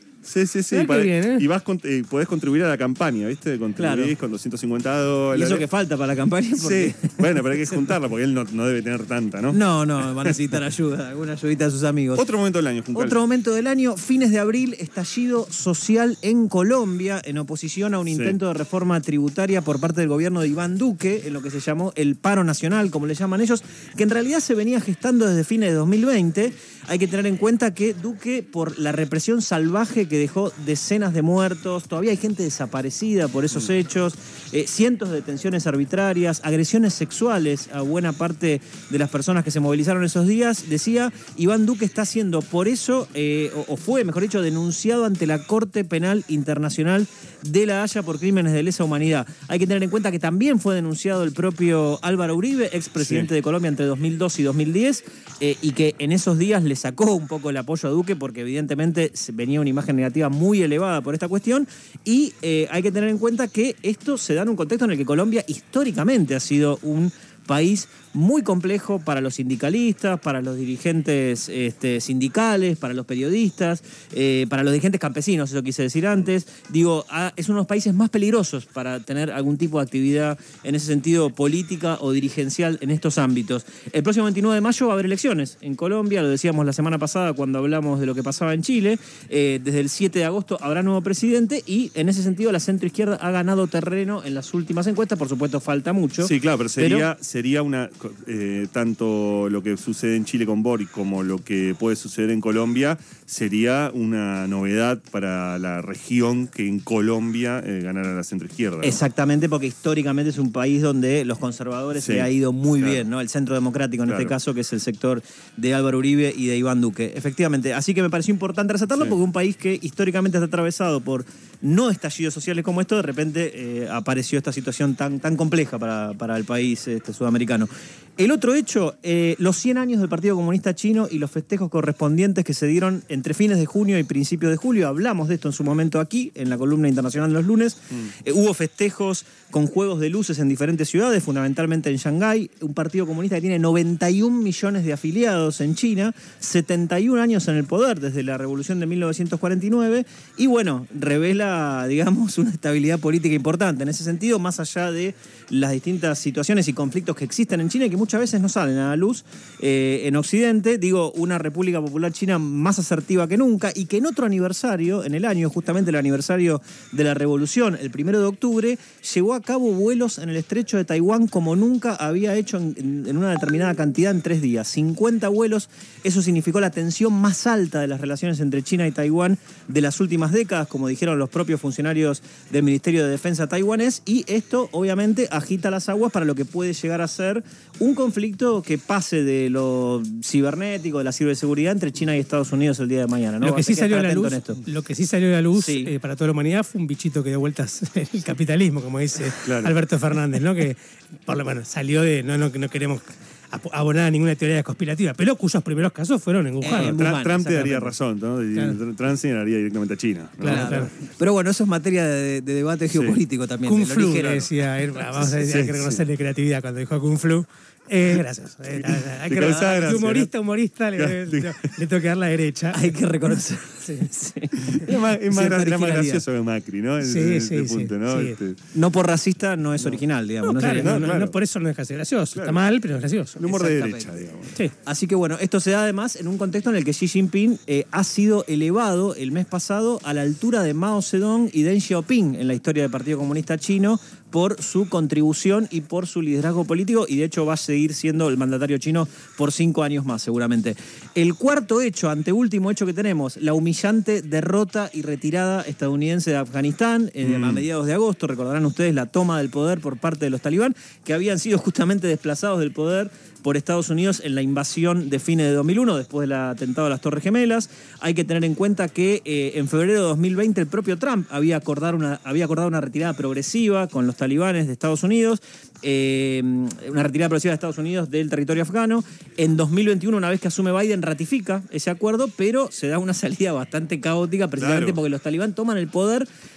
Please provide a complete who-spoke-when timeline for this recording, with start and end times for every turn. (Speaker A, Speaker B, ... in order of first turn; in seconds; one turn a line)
Speaker A: 0.2-5.7
Speaker B: 0.7-1.5
Speaker C: 3.8-4.1
Speaker C: 5.3-7.8
Speaker A: 6.6-10.4
Speaker C: 9.5-12.2
Speaker A: 12.2-13.2
Speaker C: 12.9-97.1
Speaker A: 18.1-18.4
Speaker A: 53.0-53.3
Speaker A: 96.2-109.0
Speaker C: 108.8-194.6
Speaker A: 112.0-113.0
Speaker A: 114.1-114.3
Speaker B: 193.4-207.0
Speaker C: 195.6-195.9
Speaker A: 199.4-199.7
Speaker C: 206.6-207.9
Speaker A: 206.8-210.9
Speaker B: 207.5-207.9
Speaker B: 210.4-210.9
Speaker C: 210.4-214.5
Speaker A: 212.9-213.2
Speaker B: 213.7-223.0
Speaker A: 215.4-216.0
Speaker A: 218.7-220.3
Speaker A: 221.0-221.6
Speaker C: 222.7-226.2
Speaker B: 223.8-224.1
Speaker A: 224.6-228.6
Speaker B: 227.0-228.4
Speaker C: 228.7-231.1
Speaker B: 230.4-233.4
Speaker A: 230.6-231.4
Speaker A: 232.3-232.6
Speaker A: 233.4-234.5
Speaker C: 233.5-234.2
Speaker C: 234.8-286.3
Speaker A: 257.2-257.6
Speaker A: 284.6-285.0